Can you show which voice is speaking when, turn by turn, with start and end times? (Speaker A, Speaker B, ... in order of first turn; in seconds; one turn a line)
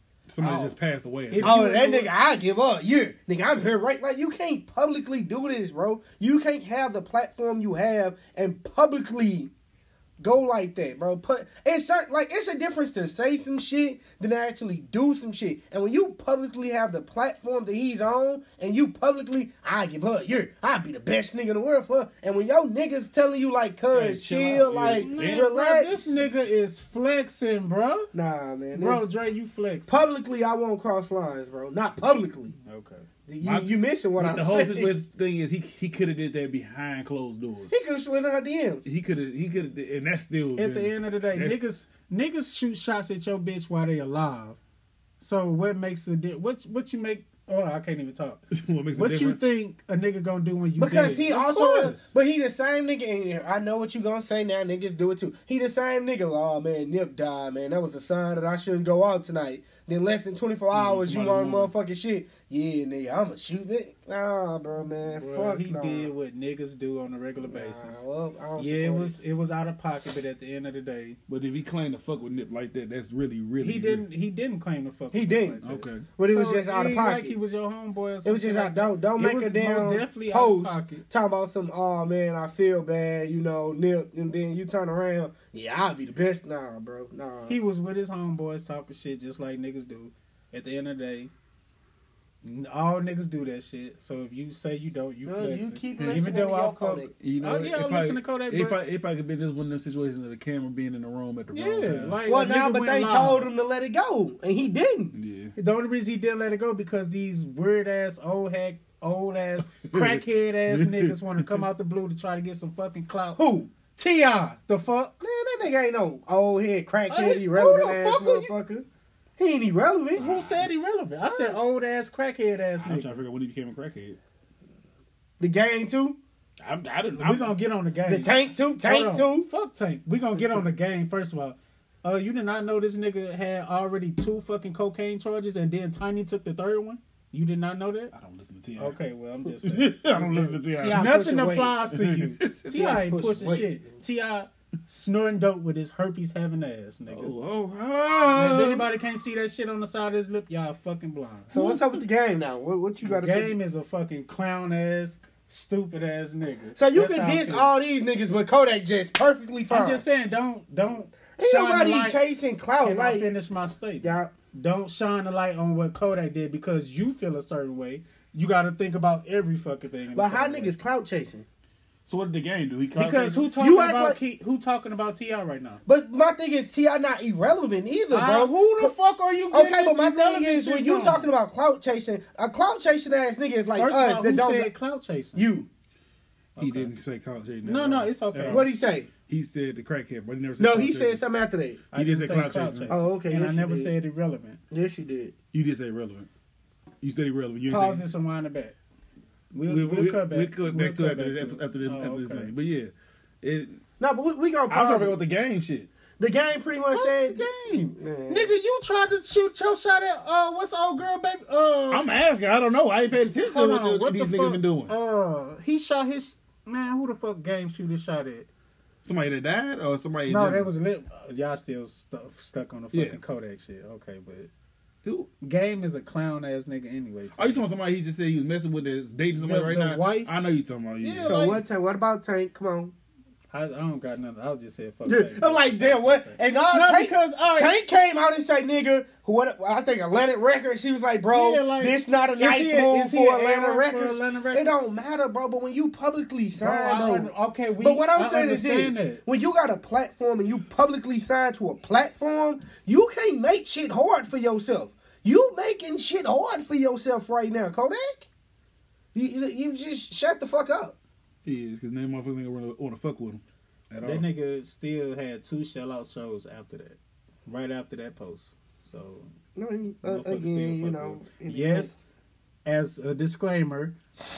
Speaker A: 0.3-1.6
Speaker B: 0.4-0.8
Speaker C: 1.3-2.1
Speaker B: 1.4-9.5
Speaker B: 10.2-26.1
Speaker A: 23.9-25.5
Speaker C: 25.0-28.1
Speaker B: 28.1-29.1
Speaker C: 28.8-30.0
Speaker B: 29.9-32.6
Speaker C: 32.6-33.0
Speaker B: 33.3-35.0
Speaker A: 33.4-37.8
Speaker B: 37.7-38.8
Speaker A: 38.9-41.6
Speaker C: 40.6-44.6
Speaker C: 45.2-52.1
Speaker A: 48.5-49.4
Speaker B: 50.8-66.1
Speaker A: 60.7-61.7
Speaker C: 65.0-68.0
Speaker B: 67.4-69.2
Speaker C: 68.6-71.2
Speaker A: 71.3-74.0
Speaker C: 73.6-81.0
Speaker B: 75.1-75.6
Speaker A: 75.6-76.1
Speaker B: 76.2-77.3
Speaker B: 78.2-87.6
Speaker C: 87.5-91.3
Speaker C: 92.4-98.8
Speaker B: 95.3-97.2
Speaker A: 96.0-96.3
Speaker A: 97.2-102.2
Speaker C: 101.5-103.5
Speaker B: 102.2-105.2
Speaker A: 105.1-105.5
Speaker C: 105.6-115.2
Speaker A: 109.8-111.5
Speaker B: 113.4-113.7
Speaker B: 115.2-118.8
Speaker C: 117.1-118.5
Speaker B: 119.4-120.3
Speaker C: 120.2-123.1
Speaker A: 120.2-120.6
Speaker B: 121.3-121.6
Speaker A: 122.8-124.2
Speaker B: 125.4-126.2
Speaker A: 126.6-127.5
Speaker C: 127.2-138.1
Speaker B: 128.1-129.5
Speaker A: 138.1-141.1
Speaker C: 138.8-147.3
Speaker B: 140.7-141.8
Speaker A: 141.9-142.8
Speaker B: 142.7-143.8
Speaker A: 147.1-148.9
Speaker C: 148.3-151.8
Speaker B: 151.5-153.6
Speaker C: 153.0-157.7
Speaker B: 156.8-160.0
Speaker C: 159.7-162.2
Speaker B: 161.4-163.3
Speaker C: 162.8-170.8
Speaker B: 164.0-164.3
Speaker B: 170.2-171.4
Speaker A: 172.1-173.5
Speaker C: 173.0-175.8
Speaker B: 173.6-174.2
Speaker B: 175.9-178.9
Speaker C: 178.1-181.3
Speaker B: 179.5-184.7
Speaker C: 183.8-185.5
Speaker B: 185.3-185.7
Speaker C: 186.6-186.9
Speaker A: 186.6-188.7
Speaker C: 187.7-188.7
Speaker B: 188.5-189.1
Speaker A: 189.2-191.2
Speaker B: 190.6-191.8
Speaker C: 191.9-194.6
Speaker A: 191.9-193.0
Speaker B: 192.9-193.9
Speaker B: 194.7-195.3
Speaker A: 195.5-196.3
Speaker A: 197.0-198.1
Speaker C: 197.7-198.8
Speaker C: 199.5-202.5
Speaker A: 199.7-203.8
Speaker B: 204.0-205.2
Speaker A: 204.7-205.9
Speaker B: 206.2-207.4
Speaker C: 206.9-212.1
Speaker B: 207.9-208.5
Speaker A: 211.9-214.9
Speaker C: 213.4-218.5
Speaker A: 219.0-220.7
Speaker C: 220.3-224.5
Speaker A: 222.9-223.2
Speaker A: 225.0-225.3
Speaker C: 225.4-227.7
Speaker A: 227.4-231.6
Speaker C: 229.4-230.5
Speaker C: 231.0-231.6
Speaker B: 231.3-232.9
Speaker C: 233.5-237.7
Speaker B: 235.1-258.3
Speaker C: 241.3-244.9
Speaker C: 246.6-249.2
Speaker B: 259.1-261.0
Speaker A: 261.4-264.3
Speaker C: 264.0-269.3
Speaker B: 269.6-272.0
Speaker C: 270.0-272.0
Speaker C: 272.6-274.0